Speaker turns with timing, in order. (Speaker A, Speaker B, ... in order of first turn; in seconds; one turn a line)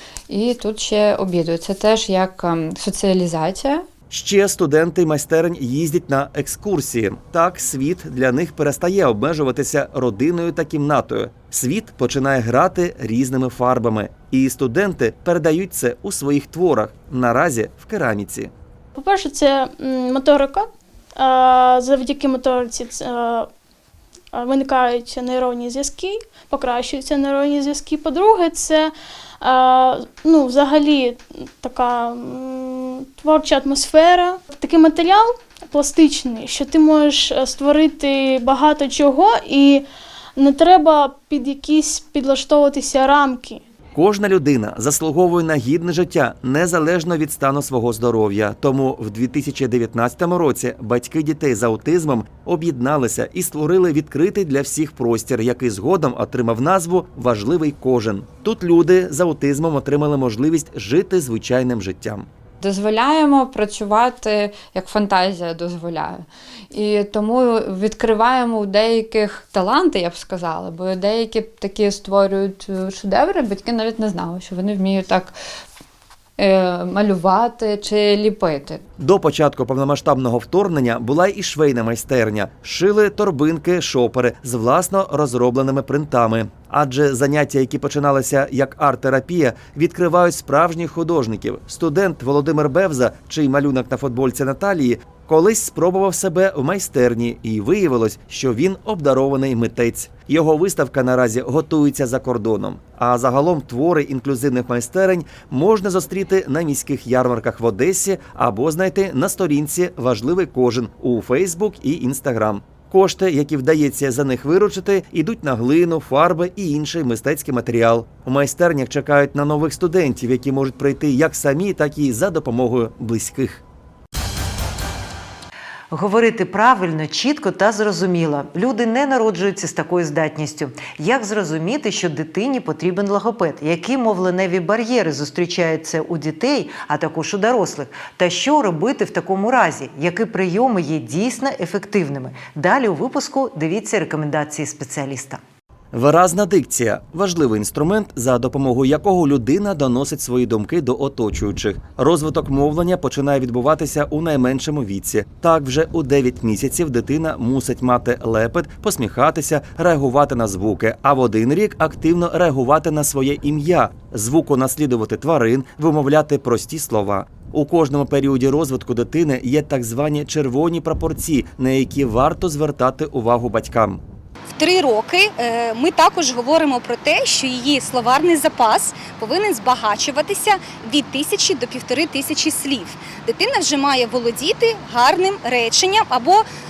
Speaker A: 0.3-3.9
Speaker B: 4.1-18.5
Speaker C: 18.9-23.5
Speaker C: 24.3-39.9
Speaker C: 40.4-43.6
Speaker B: 44.0-62.3
Speaker A: 62.6-75.3
Speaker A: 76.4-78.8
Speaker B: 79.0-123.6
Speaker D: 125.9-145.4
Speaker B: 145.9-174.0
Speaker E: 174.6-186.4